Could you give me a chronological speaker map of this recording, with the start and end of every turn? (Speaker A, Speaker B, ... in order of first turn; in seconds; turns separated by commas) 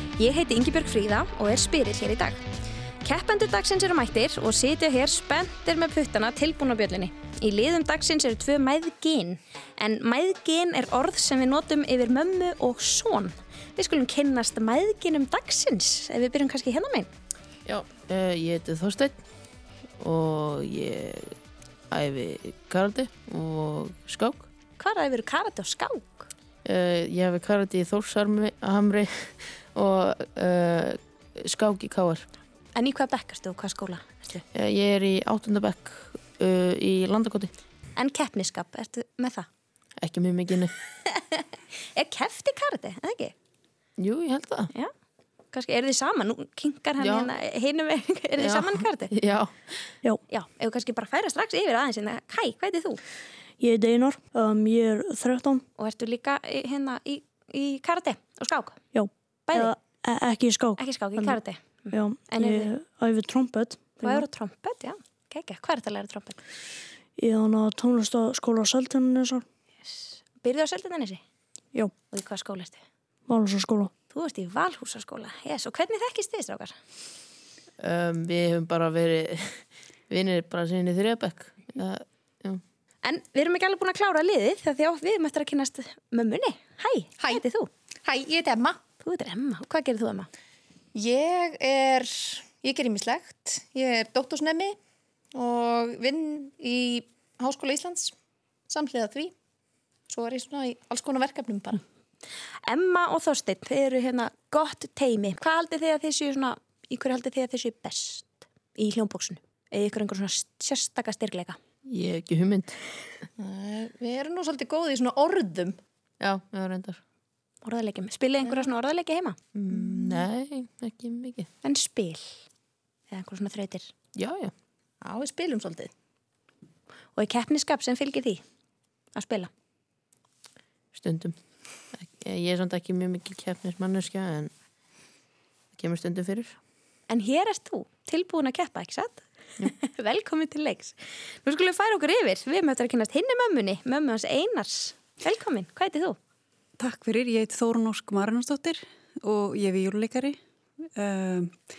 Speaker A: 0.2-2.4, Speaker A: 3.0-17.1, Speaker B: 17.6-19.2, Speaker B: 20.0-21.3, Speaker B: 21.9-24.5, Speaker A: 24.8-26.3, Speaker B: 26.6-32.2, Speaker A: 32.7-34.4, Speaker B: 34.5-37.5, Speaker A: 38.0-39.5, Speaker B: 40.0-40.7, Speaker A: 41.0-43.3, Speaker B: 44.0-44.7, Speaker A: 45.5-49.1, Speaker B: 47.0-47.3, Speaker B: 48.4-49.9, Speaker A: 50.3-53.0, Speaker C: 53.6-55.6, Speaker A: 55.8-58.8, Speaker C: 58.9-61.4, Speaker A: 59.5-59.7, Speaker A: 60.8-62.7, Speaker C: 61.9-64.2, Speaker A: 64.0-66.4, Speaker C: 67.2-69.4, Speaker A: 69.8-71.2, Speaker A: 72.1-72.8, Speaker C: 73.3-73.9, Speaker A: 74.1-76.7, Speaker B: 77.8-82.6, Speaker A: 83.0-87.7, Speaker D: 88.0-88.8, Speaker A: 89.0-90.3, Speaker D: 90.9-94.8, Speaker D: 95.3-98.1, Speaker D: 98.7-99.3, Speaker D: 100.1-101.8, Speaker A: 102.7-111.6, Speaker B: 111.9-112.8, Speaker D: 113.4-115.8, Speaker B: 116.2-117.0, Speaker A: 117.6-119.4, Speaker D: 118.4-118.7, Speaker B: 119.5-121.5, Speaker A: 121.6-122.4, Speaker A: 123.1-123.9, Speaker B: 124.1-124.5, Speaker D: 125.0-125.9, Speaker A: 127.1-128.4, Speaker A: 129.1-129.5, Speaker B: 130.9-131.4, Speaker B: 131.9-134.5, Speaker B: 135.8-136.5, Speaker A: 137.1-146.2, Speaker E: 146.8-150.4, Speaker E: 150.9-151.6